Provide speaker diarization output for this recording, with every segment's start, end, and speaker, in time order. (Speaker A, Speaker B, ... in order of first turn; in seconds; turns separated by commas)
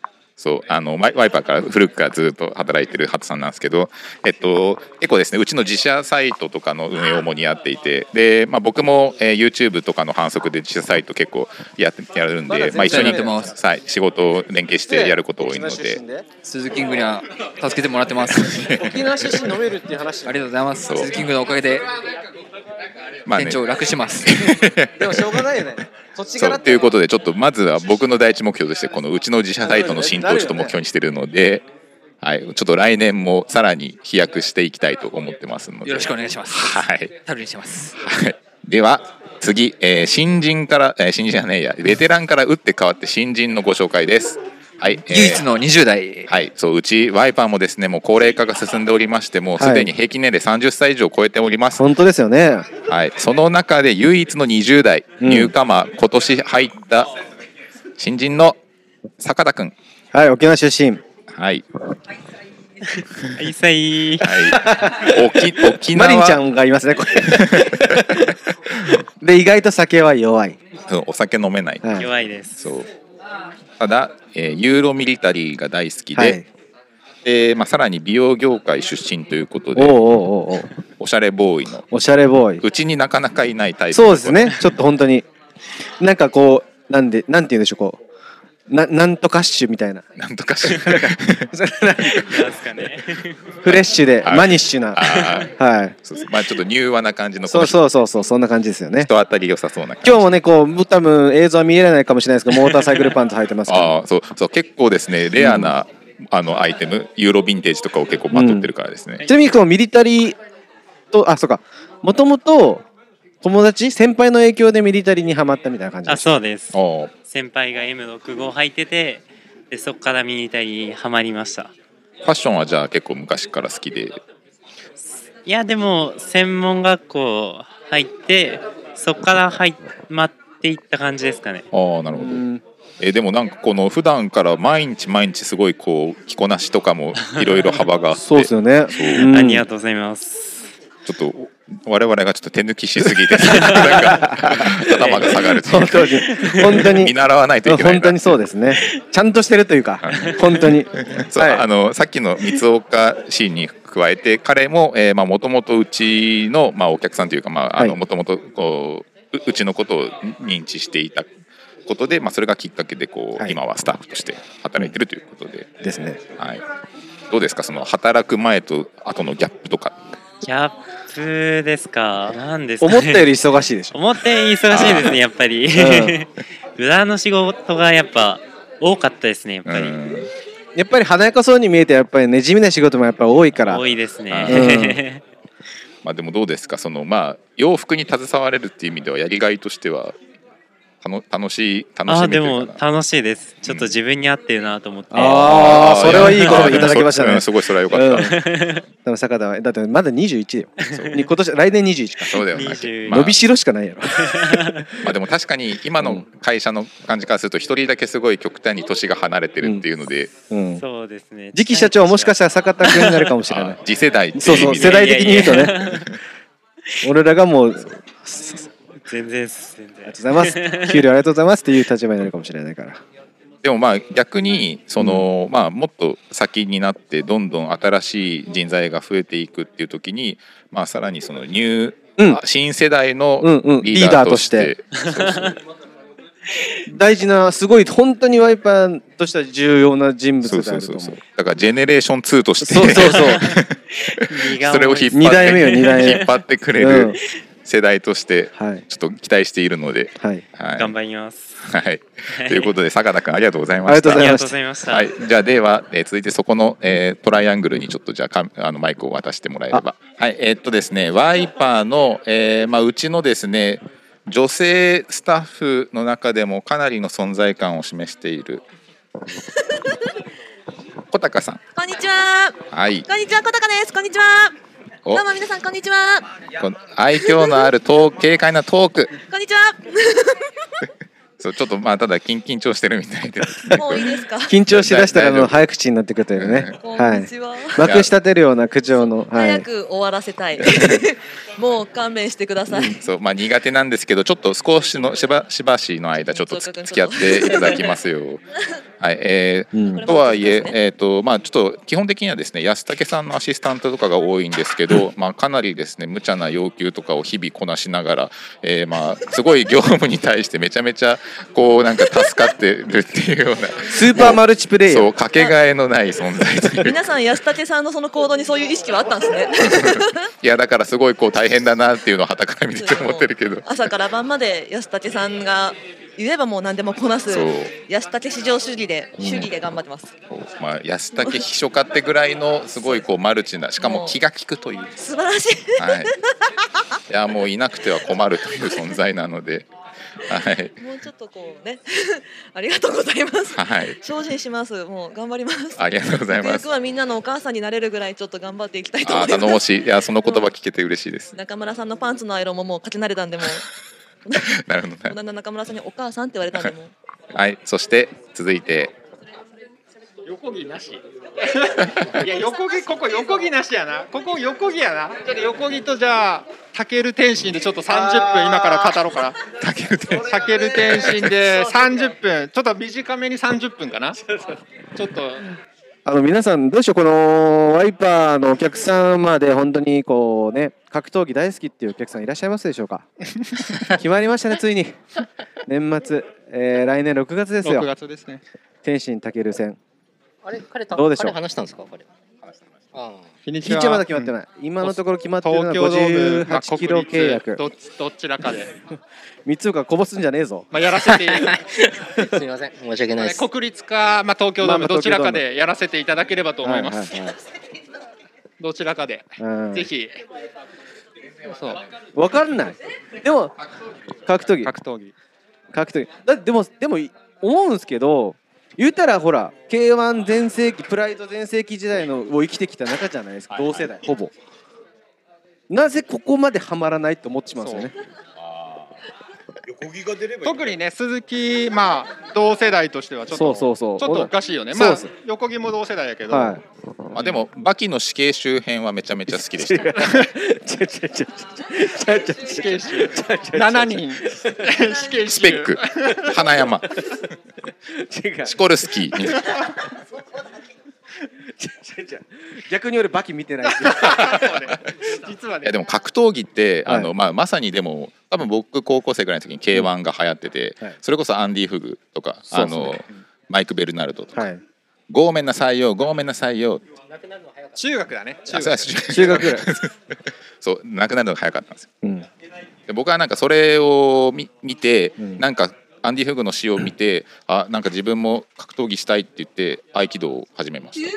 Speaker A: 0.4-16.0, Speaker B: 12.5-13.6, Speaker C: 12.8-13.5, Speaker B: 14.9-16.3, Speaker C: 16.4-18.7, Speaker A: 18.4-19.5, Speaker B: 18.8-20.4, Speaker C: 20.3-21.9, Speaker A: 20.8-21.3, Speaker A: 23.3-23.6, Speaker C: 23.3-24.5, Speaker A: 24.2-25.5, Speaker B: 25.0-26.9, Speaker A: 26.4-31.6, Speaker B: 29.6-30.8, Speaker A: 32.2-37.2, Speaker C: 35.9-37.9, Speaker A: 38.0-45.5, Speaker C: 45.0-46.3, Speaker A: 46.3-51.9, Speaker B: 49.6-49.9, Speaker B: 51.8-52.7, Speaker A: 52.9-57.1, Speaker B: 55.2-55.5, Speaker A: 58.0-58.6, Speaker A: 59.2-59.8, Speaker B: 60.1-61.0, Speaker A: 61.3-61.6, Speaker D: 63.4-64.5, Speaker A: 64.2-66.4, Speaker B: 64.5-65.2, Speaker B: 65.9-68.3, Speaker A: 67.3-68.0, Speaker B: 69.2-70.6, Speaker A: 70.9-72.0, Speaker D: 72.0-72.7, Speaker A: 72.6-72.9, Speaker A: 73.8-76.4, Speaker B: 76.2-76.5, Speaker A: 77.2-80.0, Speaker B: 79.8-80.7, Speaker A: 81.0-81.8, Speaker B: 81.9-82.6, Speaker A: 82.6-84.7, Speaker B: 83.9-85.3, Speaker B: 86.0-88.0, Speaker B: 88.7-90.0, Speaker A: 90.2-91.5, Speaker B: 90.7-92.4, Speaker D: 92.2-93.4, Speaker B: 93.6-95.0, Speaker A: 93.7-95.5, Speaker D: 95.0-95.5, Speaker B: 95.5-96.0, Speaker A: 96.1-97.8, Speaker B: 97.5-99.1, Speaker A: 99.0-100.3, Speaker B: 100.0-103.9, Speaker A: 103.7-109.3, Speaker B: 105.4-105.7, Speaker B: 108.3-108.7, Speaker B: 109.3-110.4, Speaker B: 111.1-112.8, Speaker B: 113.4-116.3, Speaker D: 116.1-121.7, Speaker A: 116.7-117.1, Speaker A: 122.2-124.2, Speaker D: 125.4-131.7, Speaker A: 131.7-132.4, Speaker B: 132.1-132.6, Speaker A: 133.0-139.3, Speaker D: 137.2-137.8, Speaker B: 138.2-139.7, Speaker D: 139.1-140.7, Speaker A: 141.1-148.4, Speaker D: 143.5-144.1, Speaker D: 145.0-145.3, Speaker B: 145.6-147.1, Speaker D: 146.3-146.9, Speaker B: 147.7-151.6, Speaker A: 150.0-161.3, Speaker D: 150.1-150.5, Speaker A: 161.9-165.7, Speaker B: 165.8-166.2, Speaker A: 166.4-166.6, Speaker A: 167.3-170.0, Speaker D: 170.4-173.3, Speaker B: 172.8-173.9, Speaker D: 173.9-180.0, Speaker A: 174.7-175.2, Speaker B: 175.8-176.2, Speaker A: 179.7-180.3, Speaker B: 180.8-183.8, Speaker D: 183.6-185.2, Speaker A: 184.3-184.8, Speaker B: 184.5-185.0, Speaker A: 186.0-190.2, Speaker A: 191.0-192.8, Speaker D: 192.1-197.0, Speaker A: 193.7-194.0, Speaker B: 195.1-198.4, Speaker A: 195.1-198.4, Speaker D: 198.2-198.8, Speaker B: 199.1-202.3, Speaker D: 200.8-201.3, Speaker A: 202.3-203.4, Speaker D: 202.4-203.3, Speaker B: 203.1-204.7, Speaker D: 204.1-205.0, Speaker A: 205.0-210.3, Speaker B: 210.5-210.8, Speaker D: 210.8-213.4, Speaker B: 211.5-213.8, Speaker A: 213.5-216.0, Speaker B: 214.4-215.8, Speaker D: 214.5-216.1, Speaker B: 217.0-218.7, Speaker D: 219.1-221.1, Speaker B: 220.1-223.0, Speaker A: 223.6-235.6, Speaker B: 225.0-225.3, Speaker B: 233.4-234.7, Speaker D: 234.9-235.5, Speaker B: 236.9-241.2, Speaker A: 240.4-250.9, Speaker B: 242.6-243.4, Speaker D: 243.0-243.6, Speaker D: 244.3-246.3, Speaker B: 245.1-246.2, Speaker B: 246.8-247.2, Speaker B: 248.6-248.8, Speaker D: 250.8-251.6, Speaker A: 251.6-268.6, Speaker D: 252.3-252.7, Speaker B: 253.9-254.5, Speaker D: 254.1-255.1, Speaker A: 271.1-271.6, Speaker E: 271.8-274.5, Speaker A: 272.7-273.1, Speaker E: 275.1-276.3, Speaker A: 276.6-279.1, Speaker E: 277.2-277.6, Speaker E: 279.3-280.4, Speaker A: 281.4-284.1, Speaker E: 283.7-284.6, Speaker B: 284.5-289.7, Speaker A: 284.7-285.5, Speaker A: 286.4-286.8, Speaker E: 286.8-287.9, Speaker A: 287.8-288.1, Speaker E: 289.3-293.0, Speaker B: 292.7-292.9, Speaker A: 293.0-298.4, Speaker E: 296.2-298.0, Speaker A: 299.0-317.0, Speaker B: 299.7-300.1, Speaker E: 299.9-300.8, Speaker B: 313.9-315.1, Speaker E: 316.8-320.2, Speaker A: 319.7-323.9, Speaker E: 322.8-330.1, Speaker A: 327.3-327.7, Speaker B: 329.2-329.5, Speaker A: 330.3-334.9, Speaker E: 333.8-334.1, Speaker E: 335.0-336.1, Speaker A: 335.8-336.1, Speaker A: 337.1-339.7, Speaker A: 340.3-340.8, Speaker E: 340.8-349.6, Speaker A: 343.5-344.0, Speaker A: 345.8-346.6, Speaker A: 349.0-351.3, Speaker E: 351.3-353.6, Speaker E: 354.3-354.5, Speaker A: 354.5-355.1, Speaker E: 355.1-356.9, Speaker A: 357.3-358.9, Speaker F: 360.3-369.4, Speaker A: 369.6-370.4, Speaker F: 370.2-374.2, Speaker A: 371.0-371.3, Speaker F: 374.9-375.4, Speaker B: 376.1-383.1, Speaker B: 383.9-385.0, Speaker B: 385.7-387.9, Speaker F: 387.6-388.4, Speaker B: 388.8-389.8, Speaker G: 390.4-392.1, Speaker B: 390.9-391.4, Speaker G: 392.9-393.3, Speaker F: 393.4-394.3, Speaker B: 393.6-397.6, Speaker F: 394.8-398.7, Speaker B: 399.5-400.7, Speaker F: 400.7-401.6, Speaker G: 401.3-403.5, Speaker F: 403.2-407.1, Speaker B: 404.6-405.4, Speaker B: 406.6-407.4, Speaker F: 408.6-410.2, Speaker B: 409.4-409.9, Speaker B: 412.1-413.5, Speaker B: 414.3-414.8, Speaker F: 414.6-415.1, Speaker B: 415.7-424.3, Speaker B: 425.7-427.9, Speaker F: 427.6-427.9, Speaker F: 430.4-436.6, Speaker B: 433.3-435.1, Speaker B: 436.3-436.6, Speaker A: 437.1-440.1, Speaker B: 439.5-444.7, Speaker F: 442.5-446.3, Speaker A: 445.3-446.9, Speaker B: 448.0-448.6, Speaker A: 448.5-449.5, Speaker B: 451.6-454.5, Speaker F: 453.6-455.8, Speaker A: 455.6-464.5, Speaker B: 462.5-463.0, Speaker B: 464.4-464.6, Speaker A: 465.1-466.8, Speaker F: 467.8-469.3, Speaker A: 468.5-469.9, Speaker B: 469.1-469.7, Speaker A: 470.6-471.9, Speaker B: 472.0-472.3, Speaker A: 472.9-481.1